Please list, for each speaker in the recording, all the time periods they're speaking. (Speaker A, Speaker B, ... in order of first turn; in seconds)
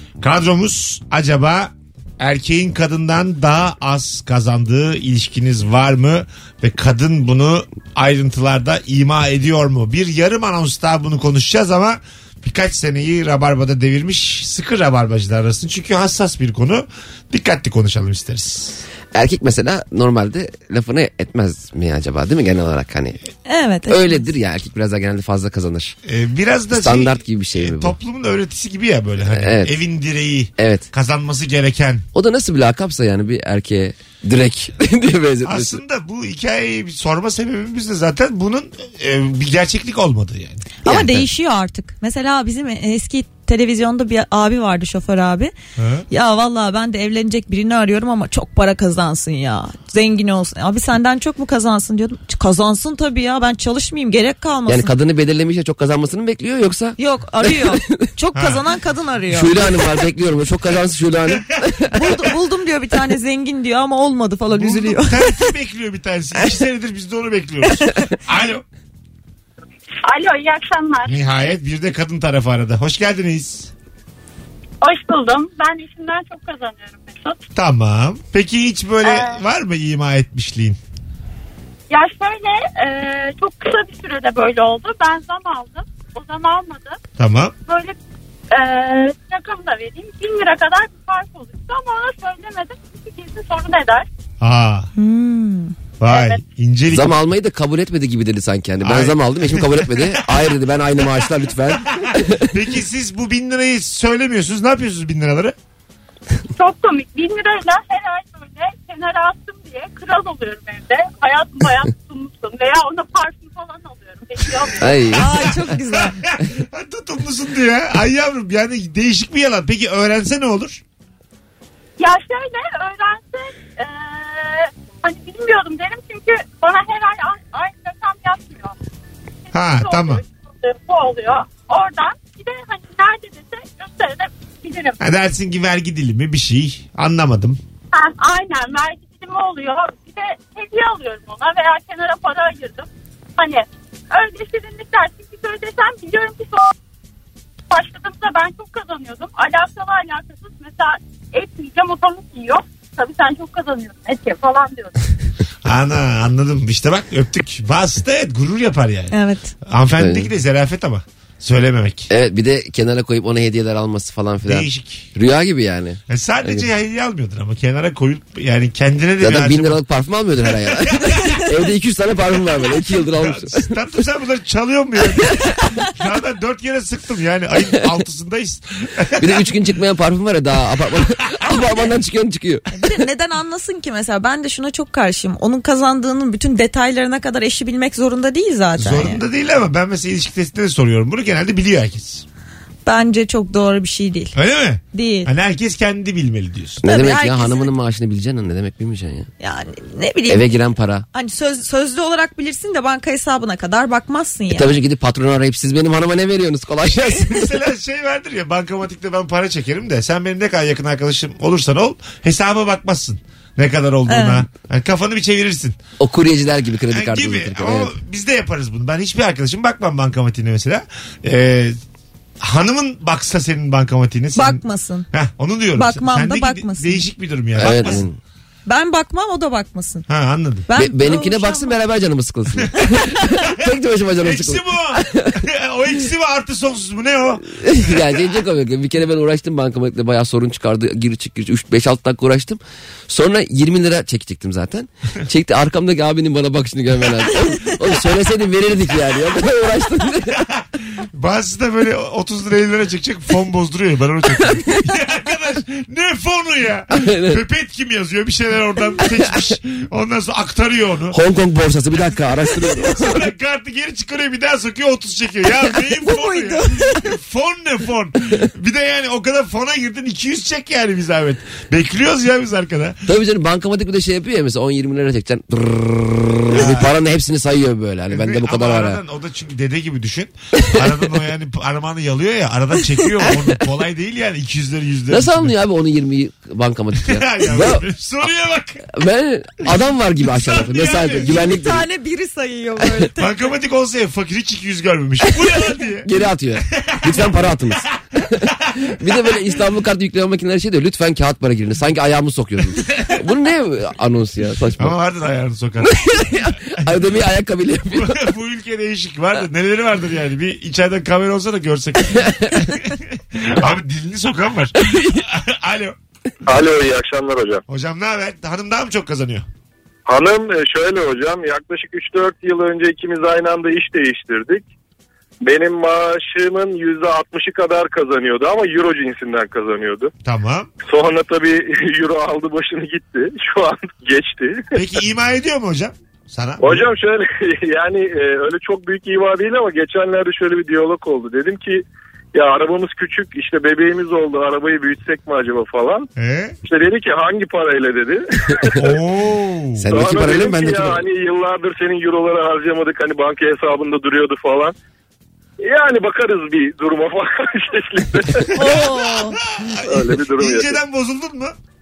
Speaker A: 0.2-18.8, 26.0-32.0, 35.4-40.6, 45.8-46.0, 58.3-58.6, 64.5-68.6, 71.0-73.7, 77.5-80.8, 87.2-87.5, 94.4-94.9, 96.0-97.2, 98.8-100.3, 101.9-105.5, 115.8-120.8, 129.5-130.2, 135.0-137.6, 155.6-159.1, 159.6-162.1, 164.4-165.1, 166.1-169.8, 170.5-171.5, 173.1-179.4, 188.8-192.2, 194.3-196.8, 207.2-215.8, 216.9-221.8, 222.4-224.6, 225.1-228.1, 230.1-230.7, 234.2-237.6, 251.1-261.2, 262.7-273.0, 276.5-276.9, 278.1-285.5, 287.0-288.9, 290.3-291.3, 293.2-296.1, 296.7-297.2, 297.8-298.9, 302.8-303.2, 304.8-306.9, 307.9-315.9, 317.7-319.4, 330.2-330.7, 334.7-336.9, 346.1-346.6, 348.8-349.8, 358.6-361.5
Speaker B: 19.1-23.2, 23.9-25.9, 26.7-27.9, 29.3-29.7, 30.6-30.9, 32.1-35.8, 40.8-41.2, 54.7-58.0, 59.3-62.0, 96.9-102.5, 114.8-115.4, 160.0-160.3, 162.1-166.7, 169.2-173.7, 179.2-182.6, 196.8-199.3, 200.3-201.1, 204.5-207.4, 216.0-217.9, 227.6-228.2, 230.7-235.4, 237.5-250.4, 256.9-257.4, 261.1-263.3, 273.1-279.0, 280.6-280.9, 285.1-288.2, 288.9-291.8, 296.0-298.4, 299.0-304.9, 305.8-308.2, 312.1-312.5, 349.8-351.0
Speaker C: 23.4-24.3, 40.8-45.5, 46.1-55.0, 57.0-59.6, 61.9-65.5, 95.0-95.8, 115.1-116.2, 159.1-159.5, 182.7-189.2, 192.8-194.4, 194.9-195.3, 196.8-197.7, 199.4-200.5, 201.1-204.7, 214.1-214.4, 224.3-225.1, 225.7-227.1, 228.7-230.1, 230.7-231.7, 232.8-233.4, 266.0-267.1, 290.8-293.4, 358.5-359.4
Speaker D: 70.0-71.2, 74.8-77.4, 79.0-79.4, 81.9-87.0, 87.7-88.0, 88.5-94.1, 96.1-96.4, 106.5-115.0, 122.0-128.7, 129.5-134.9, 137.9-146.7, 147.7-155.1
Speaker E: 316.5-317.6, 320.1-324.6, 325.4-330.1, 330.9-335.0, 336.6-346.1, 346.6-348.8, 349.9-354.7, 355.6-358.5, 359.8-360.8